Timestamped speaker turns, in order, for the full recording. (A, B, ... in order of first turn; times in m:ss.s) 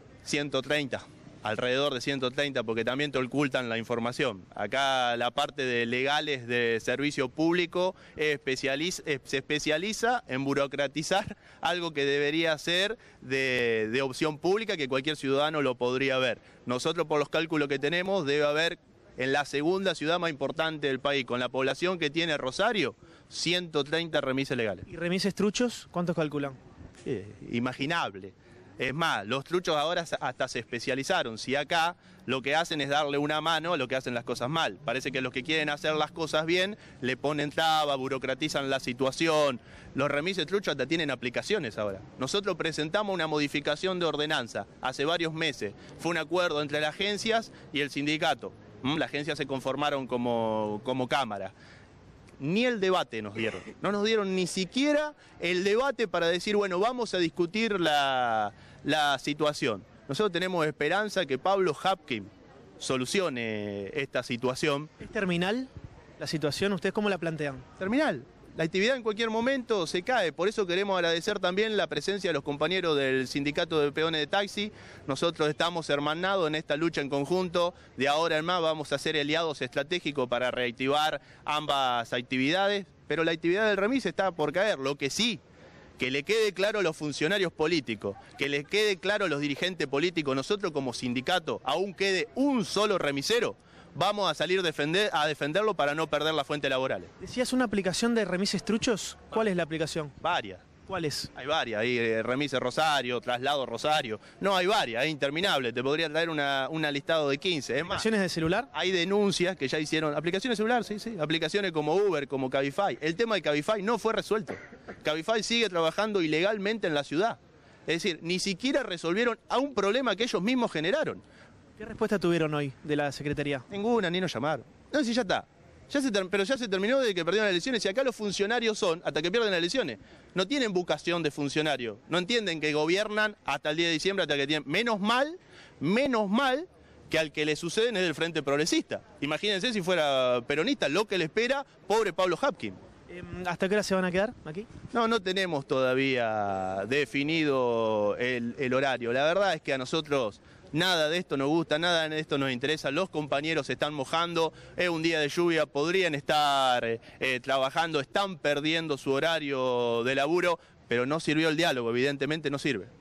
0:00.2-0:24.8 A
0:24.9-0:26.6 B
0:27.0-0:51.5 A
0:52.4-1:04.9 A
1:05.0-1:07.6 B
1:07.8-1:25.4 A
1:26.0-1:37.1 A
1:37.2-1:40.1 B
1:40.2-1:40.7 A
1:40.9-1:41.3 B
1:41.3-1:48.0 A
1:47.8-1:48.7 B
1:48.7-2:01.2 A
2:01.8-2:03.6 B
2:03.7-2:22.8 A
2:23.1-2:24.7 B
2:24.9-2:42.9 A